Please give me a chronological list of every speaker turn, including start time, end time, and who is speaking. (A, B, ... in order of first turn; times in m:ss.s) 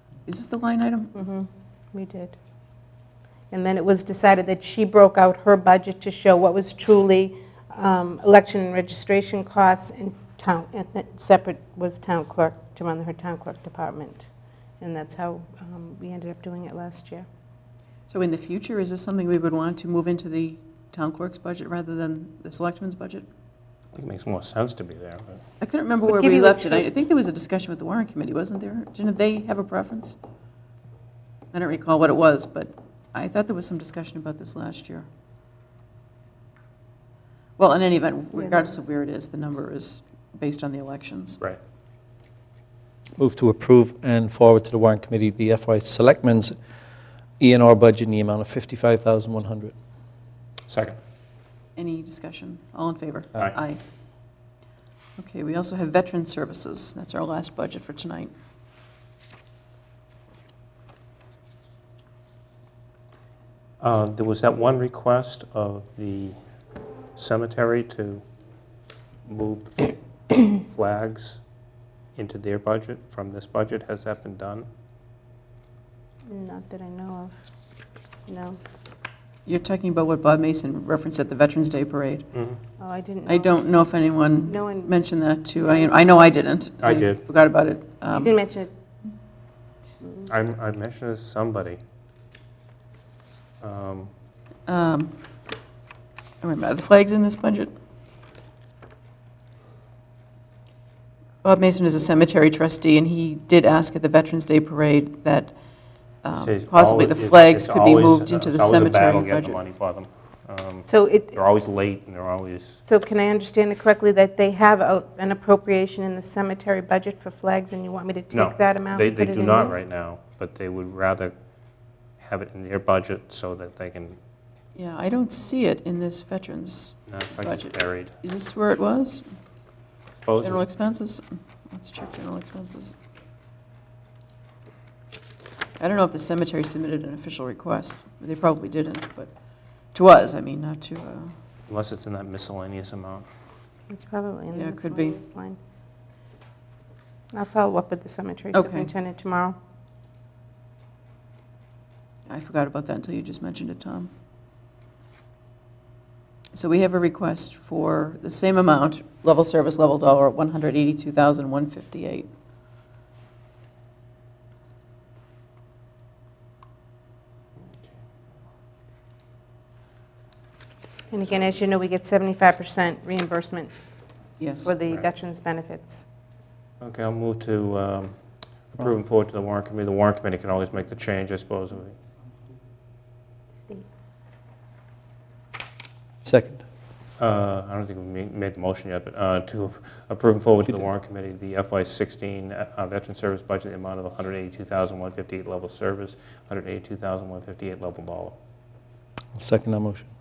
0:00.3-0:01.1 A
0:01.1-0:02.4 B
0:03.5-0:14.3 B
0:14.8-0:17.3 B
0:18.1-0:23.3 A
0:23.9-0:25.4 C
0:25.6-0:30.2 A
0:26.1-0:26.9 B
0:31.5-0:35.1 A
0:37.6-0:41.4 A
0:38.4-0:38.7 B
0:43.2-0:46.6 D
0:47.4-0:49.8 D
0:50.7-0:51.0 C
0:51.8-0:53.8 A
0:55.2-0:58.3 A
1:03.8-1:06.4 C
1:07.2-1:08.2 C
1:09.3-1:11.4 C
1:12.2-1:14.7 C
1:16.3-1:17.4 B
1:18.3-1:18.6 B
1:19.5-1:22.3 A
1:22.3-1:22.6 C
1:22.8-1:23.7 B
1:23.3-1:28.4 A
1:24.5-1:24.9 B
1:26.8-1:27.2 C
1:28.1-1:28.7 B
1:30.3-1:31.8 C
1:33.6-1:34.1 C
1:34.7-1:35.2 A
1:36.4-1:37.7 A
1:41.4-1:45.5 A
1:46.2-1:49.6 A
1:46.3-1:52.8 C
1:50.9-1:51.4 B
1:52.9-1:59.8 B
1:58.3-2:01.3 C
2:02.2-2:04.2 C
2:04.8-2:09.3 A
2:07.1-2:08.1 C
2:10.3-2:10.6 C
2:10.4-2:13.0 A
2:15.8-2:19.3 A
2:19.9-2:21.4 A
2:21.7-2:23.3 C
2:23.9-2:25.6 B
2:24.5-2:25.2 A
2:27.3-2:29.6 B
2:28.5-2:28.9 A
2:32.3-2:34.1 A
2:36.5-2:42.3 A
2:51.1-2:53.7 B
2:54.4-2:54.8 A
2:54.6-2:56.0 B
2:56.8-2:58.2 C
2:58.7-3:02.0 C
3:06.2-3:06.6 D
3:07.2-3:18.4 C
3:19.4-3:20.1 D